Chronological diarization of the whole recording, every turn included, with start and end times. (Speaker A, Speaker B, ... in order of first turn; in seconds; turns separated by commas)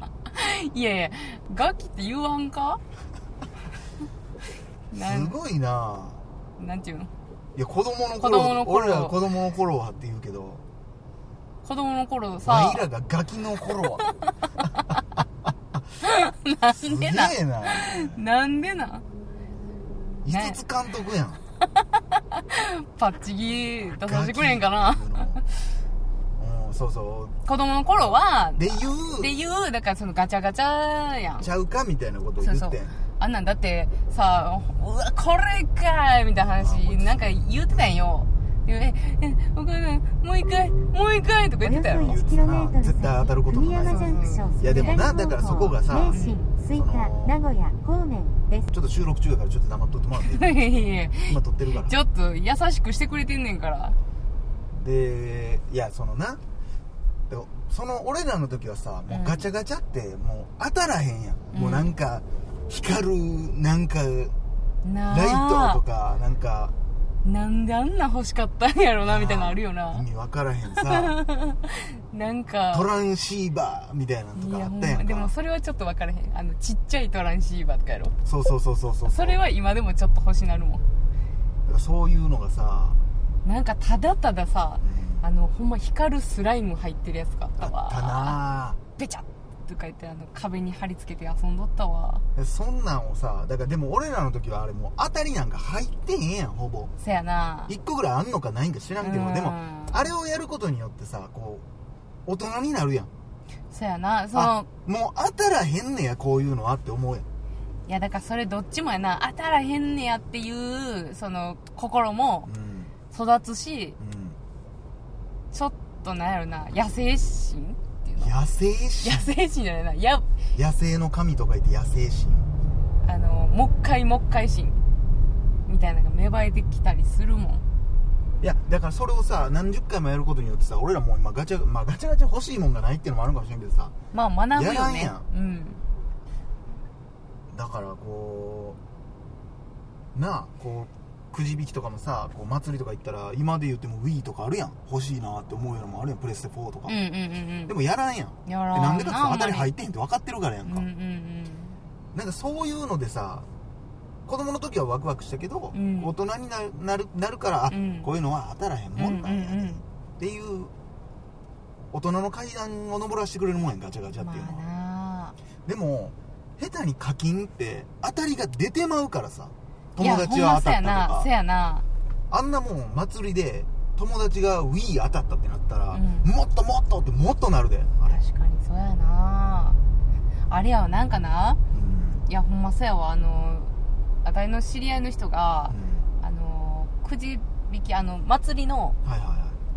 Speaker A: 0.3-2.8, Speaker A: 4.9-5.4, Speaker B: 4.9-6.2, Speaker A: 6.6-7.1, Speaker B: 7.5-10.6, Speaker A: 8.2-9.2, Speaker A: 11.6-12.9, Speaker B: 12.4-14.1, Speaker A: 16.0-19.0, Speaker B: 16.7-18.2, Speaker B: 20.2-21.4, Speaker A: 20.3-20.6, Speaker A: 22.0-25.4, Speaker B: 23.9-25.4, Speaker B: 26.4-27.4, Speaker A: 27.4-31.5, Speaker B: 28.6-29.4, Speaker B: 31.4-33.0, Speaker A: 32.4-42.2, Speaker B: 36.5-38.0, Speaker C: 41.6-48.7, Speaker B: 42.0-47.4, Speaker A: 43.9-45.0, Speaker A: 46.0-46.4, Speaker B: 48.7-51.9, Speaker A: 50.3-54.0, Speaker B: 54.7-56.4, Speaker B: 57.3-64.3, Speaker A: 59.1-59.4, Speaker A: 61.5-61.9, Speaker A: 64.8-65.8, Speaker B: 65.1-66.7, Speaker A: 67.2-70.0, Speaker B: 69.0-71.2, Speaker A: 70.8-72.9, Speaker B: 72.7-75.3, Speaker A: 74.3-78.2, Speaker B: 78.2-79.4, Speaker A: 79.0-80.8, Speaker B: 81.6-83.0, Speaker A: 83.4-88.4, Speaker B: 84.8-85.2, Speaker B: 87.6-88.8, Speaker A: 89.0-92.2, Speaker B: 92.3-96.9, Speaker A: 97.0-97.7, Speaker B: 97.7-101.6, Speaker A: 99.0-100.1, Speaker B: 102.2-103.1, Speaker A: 103.7-104.7, Speaker B: 104.3-107.2, Speaker A: 107.9-112.5, Speaker B: 112.5-112.9, Speaker A: 113.1-114.0, Speaker B: 114.0-114.4, Speaker A: 115.5-118.3, Speaker B: 118.2-119.3, Speaker A: 119.0-120.3, Speaker B: 120.5-122.5, Speaker A: 123.0-124.8, Speaker A: 125.7-127.6, Speaker B: 128.4-133.9, Speaker A: 134.1-135.8, Speaker B: 134.5-135.3, Speaker B: 137.5-138.8, Speaker B: 140.1-146.9, Speaker A: 146.9-147.7, Speaker B: 147.7-150.9, Speaker A: 148.4-149.7, Speaker A: 150.7-151.8, Speaker B: 152.1-153.5, Speaker B: 154.2-160.7, Speaker A: 155.7-156.1, Speaker A: 157.7-158.1, Speaker A: 158.9-159.8, Speaker B: 161.9-164.6, Speaker A: 164.2-165.3, Speaker B: 165.7-171.3, Speaker A: 170.0-171.8, Speaker B: 172.3-178.2, Speaker A: 175.9-176.3, Speaker A: 178.1-179.8, Speaker A: 180.5-181.6, Speaker B: 181.7-182.2, Speaker A: 182.2-183.7, Speaker A: 184.2-189.0, Speaker B: 185.7-186.1, Speaker B: 189.0-189.6